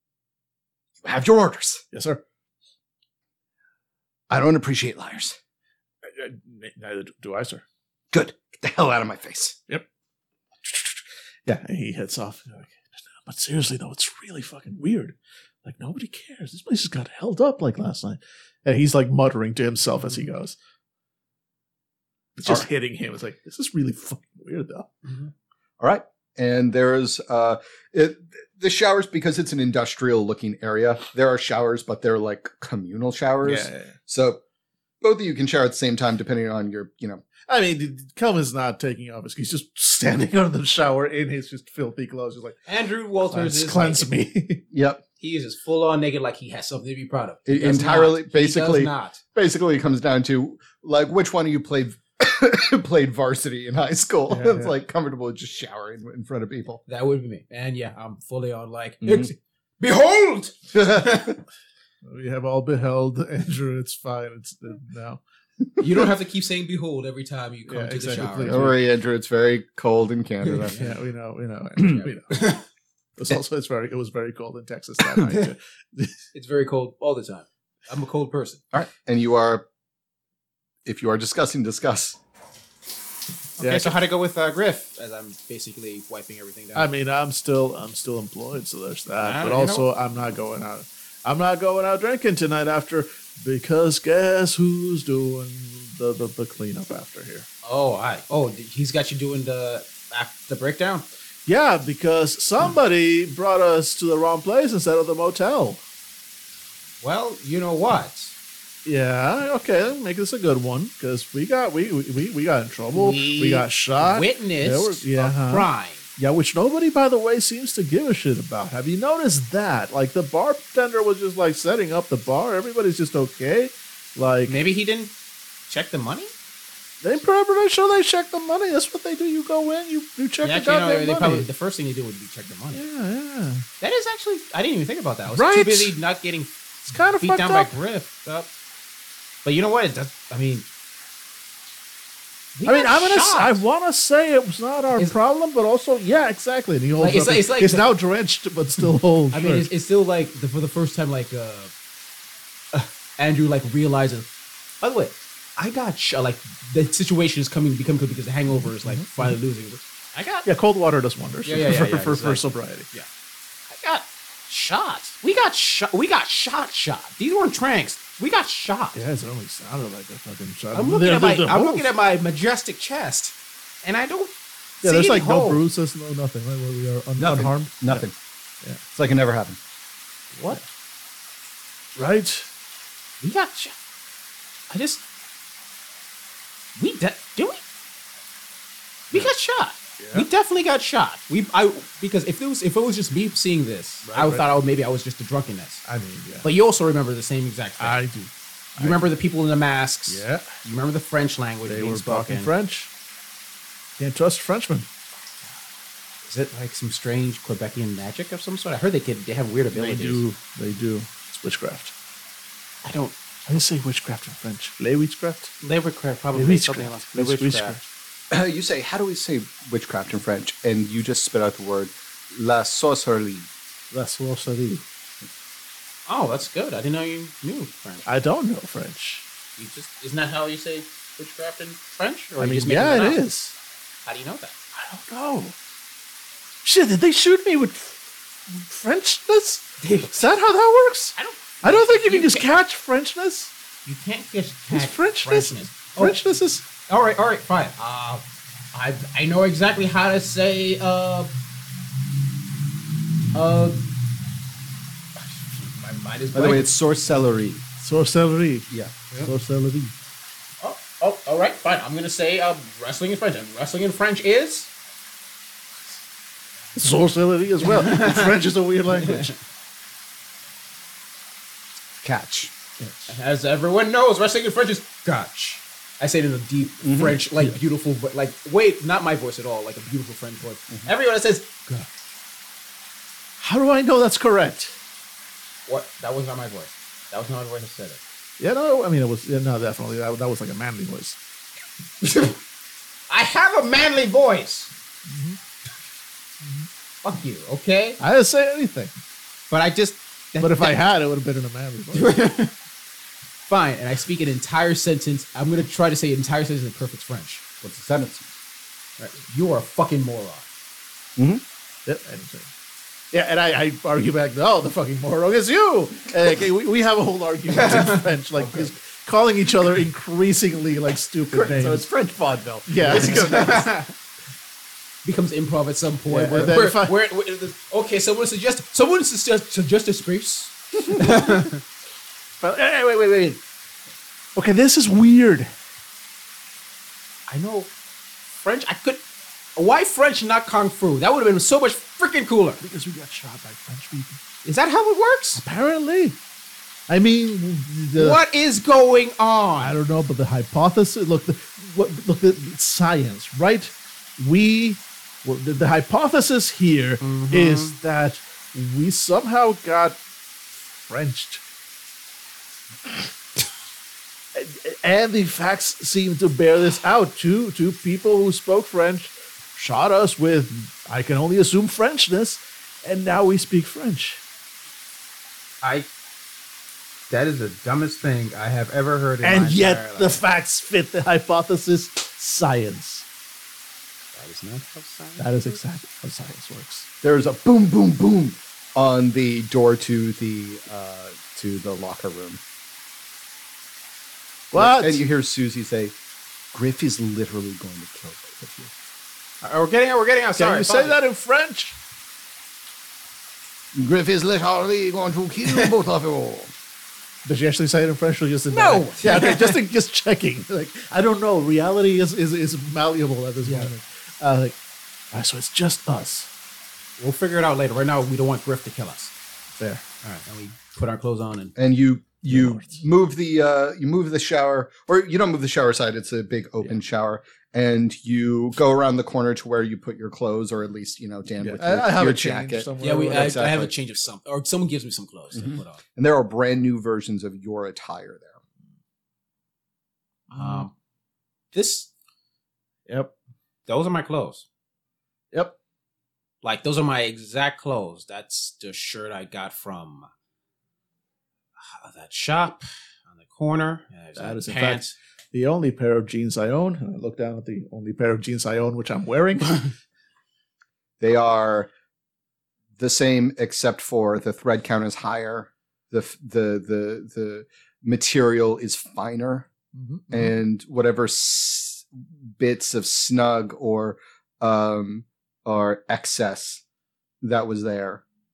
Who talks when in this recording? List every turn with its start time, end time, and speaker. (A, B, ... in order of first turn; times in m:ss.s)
0:01.0-0:01.8 A
0:01.9-0:02.2 B
0:04.3-0:05.4 A
0:06.0-0:07.6 B
0:08.1-0:09.6 A
0:10.6-0:20.6 B
0:22.4-0:25.0 B
0:25.8-0:34.4 A
0:33.4-0:33.9 B
0:35.0-0:37.2 A
0:37.5-0:42.6 B
0:42.7-0:44.1 C
0:43.3-0:44.6 B
0:44.7-0:45.0 A
0:45.2-0:49.2 C
0:47.5-0:56.8 A
0:54.3-0:54.7 B
0:56.9-1:01.4 C
0:59.0-0:59.3 A
1:00.8-1:01.4 A
1:02.0-1:05.2 B
1:05.8-1:08.7 C
1:07.7-1:08.8 B
1:08.4-1:10.8 A
1:10.5-1:10.9 C
1:10.8-1:12.5 B
1:11.9-1:12.6 C
1:13.2-1:16.2 B
1:16.3-1:18.6 C
1:18.7-1:19.6 A
1:20.8-1:22.2 A
1:23.6-1:26.9 C
1:23.6-1:24.0 B
1:26.8-1:37.5 B
1:29.2-1:29.9 C
1:37.6-1:41.1 C
1:41.5-1:45.8 B
1:47.0-1:48.4 C
1:48.8-2:04.6 B
1:52.9-1:56.0 C
2:04.5-2:05.1 C
2:05.7-2:06.3 C
2:07.0-2:11.5 B
2:10.4-2:12.8 C
2:12.7-2:13.6 B
2:13.8-2:18.5 C
2:15.3-2:16.0 B
2:16.9-2:17.7 B
2:19.4-2:20.7 C
2:22.6-2:23.6 C
2:22.7-2:29.7 B
2:27.0-2:27.9 C
2:29.3-2:31.7 C
2:32.7-2:34.3 C
2:34.8-2:40.5 C
2:38.6-2:39.4 B
2:40.4-2:42.9 B
2:41.4-2:43.1 C
2:43.7-2:49.0 C
2:49.0-2:51.9 B
2:50.7-2:55.6 C
2:54.8-2:58.0 B
2:57.2-2:58.2 A
2:59.0-2:59.6 A
3:00.3-3:00.6 B
3:02.0-3:02.5 B
3:03.2-3:03.8 C
3:04.7-3:05.0 C
3:06.8-3:07.6 C
3:09.1-3:15.8 C
3:10.0-3:10.3 B
3:14.0-3:14.5 B
3:15.8-3:16.5 B
3:16.4-3:18.0 C
3:17.8-3:19.1 B
3:18.8-3:22.5 C
3:20.1-3:20.5 B
3:21.7-3:22.9 B
3:24.0-3:24.9 B
3:26.3-3:30.2 C
3:29.7-3:31.9 B
3:32.8-3:33.2 C
3:33.5-3:35.5 B
3:35.6-3:37.8 C
3:36.4-3:37.8 B
3:38.3-3:43.5 A
3:43.9-3:44.8 B
3:46.1-3:48.1 C
3:48.1-3:49.2 B
3:49.6-3:53.2 C
3:52.4-3:53.5 B
3:54.1-3:54.6 C
3:54.8-3:55.6 B
3:56.6-4:03.5 B
3:59.8-4:00.2 C
4:01.2-4:02.5 C
4:03.8-4:06.2 C
4:04.7-4:06.6 B
4:06.9-4:11.3 C
4:13.3-4:13.9 C
4:15.4-4:16.7 C
4:16.3-4:17.6 A
4:17.8-4:18.7 B
4:18.7-4:18.9 A
4:19.2-4:19.9 B
4:20.6-4:24.7 C
4:26.8-4:29.4 B
4:27.6-4:28.3 C
4:29.0-4:29.3 C
4:32.0-4:32.5 A
4:32.8-4:33.1 B
4:33.1-4:41.9 C
4:36.8-4:37.2 A
4:43.4-4:44.7 B
4:45.7-4:48.0 C
4:48.4-4:51.2 B
4:52.0-4:52.4 C
4:53.1-4:54.7 C
4:55.1-4:55.4 B
4:56.4-4:56.7 B
4:57.0-4:58.0 C
4:58.0-4:58.9 B
4:59.5-5:00.8 C
5:00.4-5:02.2 B
5:01.9-5:02.5 C
5:03.5-5:07.4 C
5:07.6-5:08.3 A
5:09.0-5:10.5 C
5:11.2-5:11.4 A
5:11.9-5:12.5 B
5:13.1-5:21.9 B
5:17.6-5:18.0 C
5:18.4-5:18.7 A
5:21.3-5:23.7 A
5:22.7-5:23.7 B
5:22.9-5:23.9 C
5:25.0-5:31.6 C
5:26.1-5:26.9 B
5:32.4-5:33.4 B
5:34.4-5:35.5 B
5:37.3-5:37.7 C
5:38.4-5:39.0 C
5:39.6-5:42.6 C
5:42.6-5:44.2 B
5:44.4-5:45.4 C
5:45.4-5:46.2 B
5:46.9-5:48.2 B
5:48.0-5:49.8 C
5:49.6-6:00.0 B
5:57.0-5:57.8 C
6:00.8-6:01.4 B
6:04.3-6:14.2 B
6:15.6-6:15.9 C
6:17.1-6:20.2 C
6:19.2-6:23.0 B
6:24.2-6:25.6 C
6:25.2-6:26.9 B
6:27.0-6:32.4 A
6:34.5-6:35.0 B
6:34.5-6:36.0 A
6:36.5-6:38.7 A
6:39.4-6:41.0 C
6:40.4-6:41.8 B
6:43.7-6:46.5 A
6:47.2-6:54.6 B
6:48.5-6:49.3 A
6:48.9-6:49.6 C
6:53.5-6:53.7 C
6:55.1-6:56.3 B
6:57.0-6:59.1 C
6:59.6-6:59.8 B
7:00.0-7:01.5 C
7:01.6-7:13.7 A
7:02.3-7:02.8 B
7:11.4-7:13.4 B
7:12.8-7:15.8 C
7:15.3-7:18.4 A
7:20.3-7:20.7 B
7:20.4-7:20.7 C
7:21.5-7:21.9 C
7:22.9-7:23.1 B
7:23.7-7:24.5 C
7:26.4-7:30.1 C
7:31.6-7:35.0 C
7:34.2-7:39.8 B
7:41.0-7:41.7 A
7:42.8-7:49.5 A
7:49.7-7:50.3 B
7:50.1-7:56.6 A
7:57.2-7:58.0 A